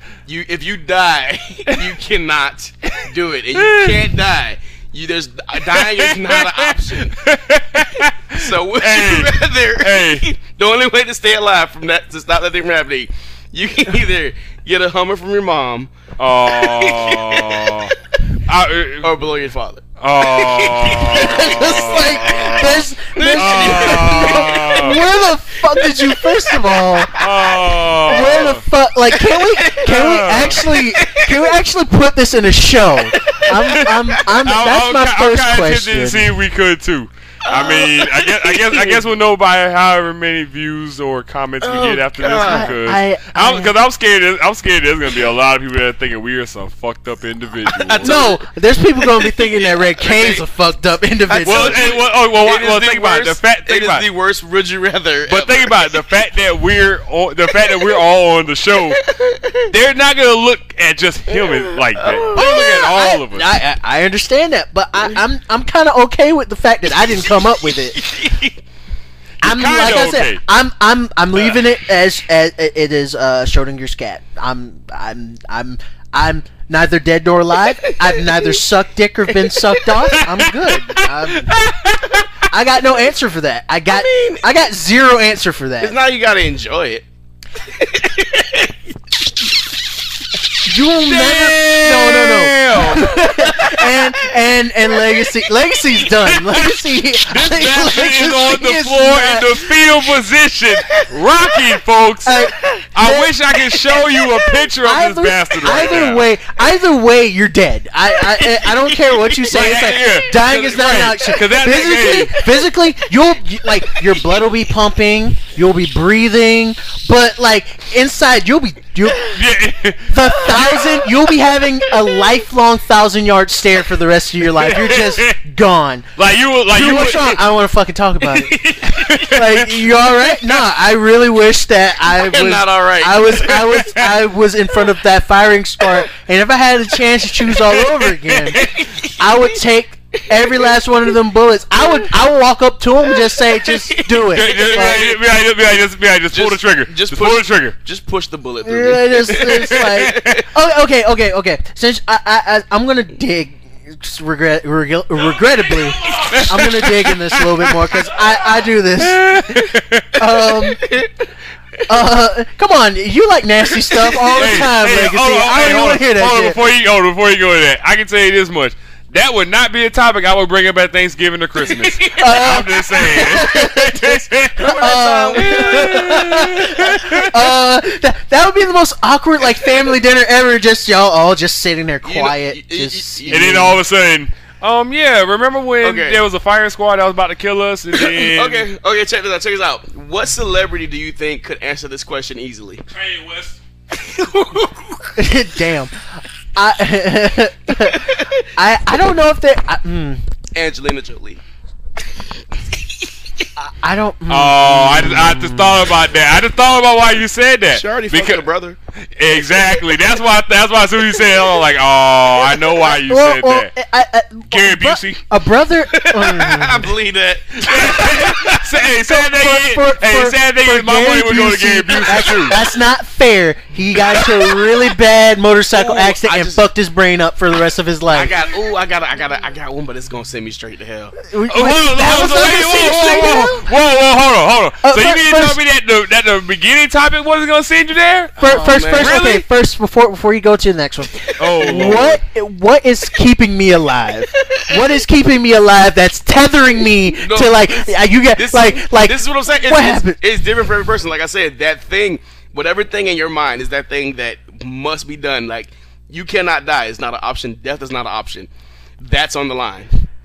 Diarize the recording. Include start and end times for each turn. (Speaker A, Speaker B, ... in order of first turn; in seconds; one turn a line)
Speaker A: 0.2-7.2
Speaker B: 3.5-4.0
Speaker B: 5.7-10.2
Speaker A: 8.3-15.9
Speaker B: 16.2-17.9
Speaker A: 16.5-17.9
Speaker B: 18.4-19.1
Speaker A: 19.0-25.0
Speaker B: 20.0-25.0
Speaker C: 21.1-27.5
Speaker A: 25.8-28.6
Speaker B: 27.1-28.6
Speaker C: 28.0-36.3
Speaker A: 29.1-31.5
Speaker B: 29.8-30.6
Speaker A: 33.1-34.2
Speaker B: 33.8-48.3
Speaker A: 37.4-39.0
Speaker A: 41.6-42.7
Speaker C: 42.3-43.7
Speaker A: 47.6-48.5
Speaker C: 48.0-51.9
Speaker A: 49.0-50.5
Speaker A: 51.3-55.9
Speaker B: 51.4-54.0
Speaker B: 55.3-59.0
Speaker A: 58.9-59.7
Speaker B: 59.7-63.5
Speaker A: 61.3-62.6
Speaker C: 62.3-68.0
Speaker A: 67.9-68.6
Speaker B: 69.4-70.4
Speaker C: 69.4-81.5
Speaker A: 77.8-78.6
Speaker A: 79.3-80.0
Speaker B: 80.2-82.3
Speaker C: 82.5-85.9
Speaker A: 83.9-84.5
Speaker A: 85.8-87.0
Speaker A: 87.7-88.7
Speaker C: 90.7-99.7
Speaker B: 91.0-93.1
Speaker A: 93.3-94.1
Speaker B: 96.1-106.3
Speaker A: 100.9-101.2
Speaker C: 102.2-103.3
Speaker A: 102.6-102.8
Speaker A: 104.1-104.6
Speaker C: 104.8-119.4
Speaker A: 108.2-111.4
Speaker B: 109.5-112.3
Speaker B: 119.3-120.9
Speaker C: 120.1-126.1
Speaker A: 120.5-120.9
Speaker B: 124.5-125.3
Speaker B: 126.2-127.4
Speaker C: 126.7-138.6
Speaker B: 128.8-129.8
Speaker A: 132.1-133.9
Speaker A: 138.5-139.5
Speaker C: 139.2-145.0
Speaker A: 140.3-140.8
Speaker A: 143.1-145.2
Speaker B: 144.3-147.8
Speaker A: 146.3-150.5
Speaker C: 148.6-159.4
Speaker D: 155.6-156.6
Speaker A: 156.3-158.1
Speaker B: 158.9-160.3
Speaker C: 160.2-160.9
Speaker A: 160.5-161.2
Speaker C: 161.9-166.6
Speaker A: 163.9-164.7
Speaker B: 164.3-174.8
Speaker A: 171.7-172.5
Speaker C: 172.1-183.8
Speaker A: 174.6-176.3
Speaker B: 175.3-177.5
Speaker A: 182.0-183.5
Speaker B: 183.3-188.7
Speaker A: 185.8-186.2
Speaker A: 187.9-192.8
Speaker D: 192.9-193.6
Speaker A: 194.2-194.4
Speaker C: 195.2-200.2
Speaker A: 197.9-198.4
Speaker A: 200.5-201.4
Speaker C: 203.6-205.8
Speaker B: 204.3-208.4
Speaker A: 207.7-208.8
Speaker B: 209.1-213.7
Speaker C: 212.7-216.9
Speaker D: 214.5-215.2
Speaker A: 215.9-218.4
Speaker B: 217.6-222.6
Speaker C: 219.0-228.3
Speaker A: 224.0-224.7
Speaker A: 225.7-226.7
Speaker A: 228.1-231.2
Speaker C: 231.3-233.7
Speaker B: 231.5-239.4
Speaker C: 234.8-235.6
Speaker C: 238.4-250.2
Speaker A: 238.4-239.2
Speaker B: 241.4-242.2
Speaker A: 241.6-242.0
Speaker A: 244.5-244.9
Speaker A: 247.1-259.9